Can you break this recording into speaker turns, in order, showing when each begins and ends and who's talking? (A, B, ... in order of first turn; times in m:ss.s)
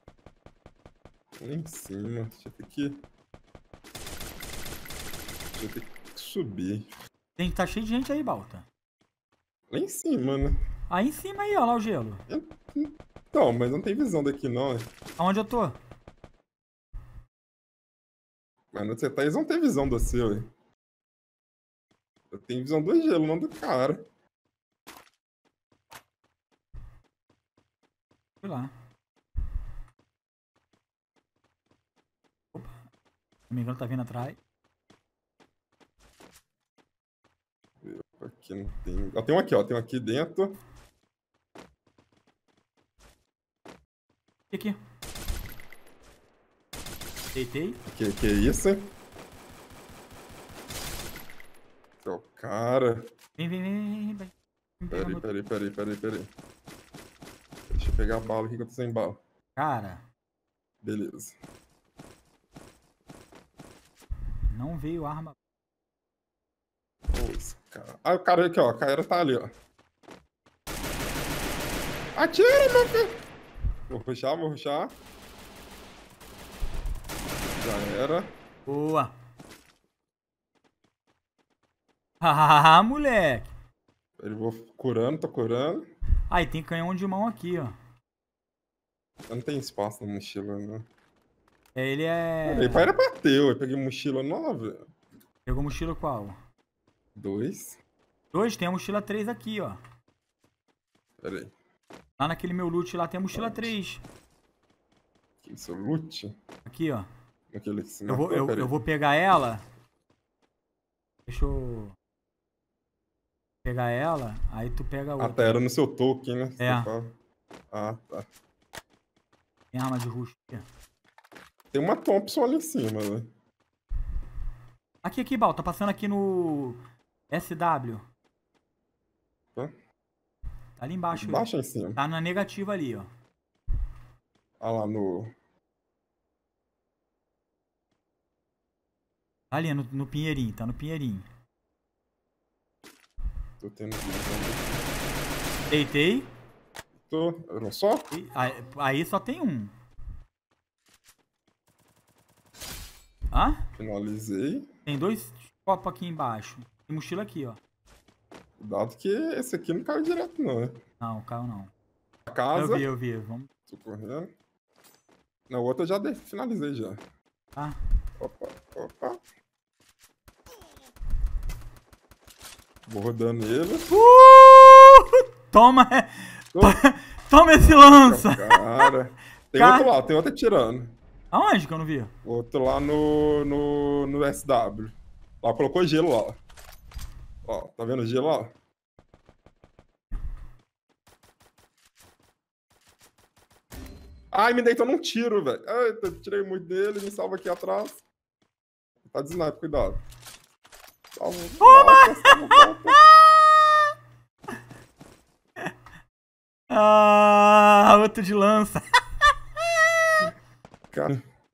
0:01.4-0:03.0 A
0:05.5-0:06.9 A
0:07.4-0:08.7 B
0:09.7-0:10.6 A
0:10.9-0:12.2 B
0:12.3-0:14.9 A
0:15.2-0:15.8 B
0:18.7-0:20.5 A
0:22.3-0:24.0 A
0:28.4-0:28.7 B
0:32.5-0:32.8 B
0:33.5-0:34.4 B
0:37.8-0:40.6 A
0:44.5-0:44.8 B
0:47.4-0:47.8 B
0:47.9-0:48.9 A
0:52.0-0:53.1 A
0:53.4-0:55.2 B
0:54.9-0:56.3 A
0:57.7-0:59.2 A
0:59.6-1:00.0 B
1:00.8-1:01.4 A
1:04.5-1:05.4 B
1:07.1-1:09.5 A
1:12.2-1:13.2 A
1:13.9-1:15.0 A
1:17.6-1:18.3 A
1:18.7-1:19.1 B
1:22.2-1:23.5 B
1:24.2-1:25.8 A
1:26.3-1:27.8 B
1:29.3-1:30.9 A
1:31.8-1:32.9 B
1:32.4-1:34.9 A
1:35.5-1:36.4 B
1:37.2-1:37.8 A
1:38.3-1:39.8 B
1:41.2-1:41.5 A
1:42.2-1:44.0 B
1:43.3-1:43.7 A
1:45.4-1:46.3 A
1:46.7-1:47.1 B
1:47.5-1:48.7 A
1:48.1-1:49.6 B
1:51.3-1:52.0 B
1:53.6-1:55.6 B
1:55.2-1:57.1 A
1:56.6-1:56.9 B
1:57.7-1:58.3 A
1:59.7-2:00.6 B
2:01.7-2:03.3 A
2:05.0-2:08.1 B
2:10.8-2:13.1 B
2:11.1-2:12.0 A
2:14.6-2:15.3 A
2:19.5-2:21.3 B
2:23.6-2:24.8 A
2:25.7-2:26.3 B
2:27.1-2:28.1 A
2:28.1-2:29.7 B
2:33.3-2:33.6 B
2:33.8-2:34.7 A
2:34.9-2:37.6 B
2:38.6-2:40.8 A
2:41.0-2:41.7 B
2:42.3-2:42.9 A
2:42.5-2:43.5 B
2:43.7-2:44.3 A
2:45.5-2:47.0 A
2:48.2-2:49.2 A
2:52.9-2:53.9 A
2:53.9-2:58.9 B
2:56.5-2:56.8 A
2:57.6-3:00.9 A
2:59.6-2:59.9 B
3:01.3-3:02.1 B
3:02.2-3:06.4 A
3:07.4-3:08.5 A
3:14.3-3:18.0 A
3:19.0-3:20.0 A
3:21.2-3:23.0 A
3:21.6-3:23.7 B
3:26.7-3:30.3 B
3:30.9-3:31.2 A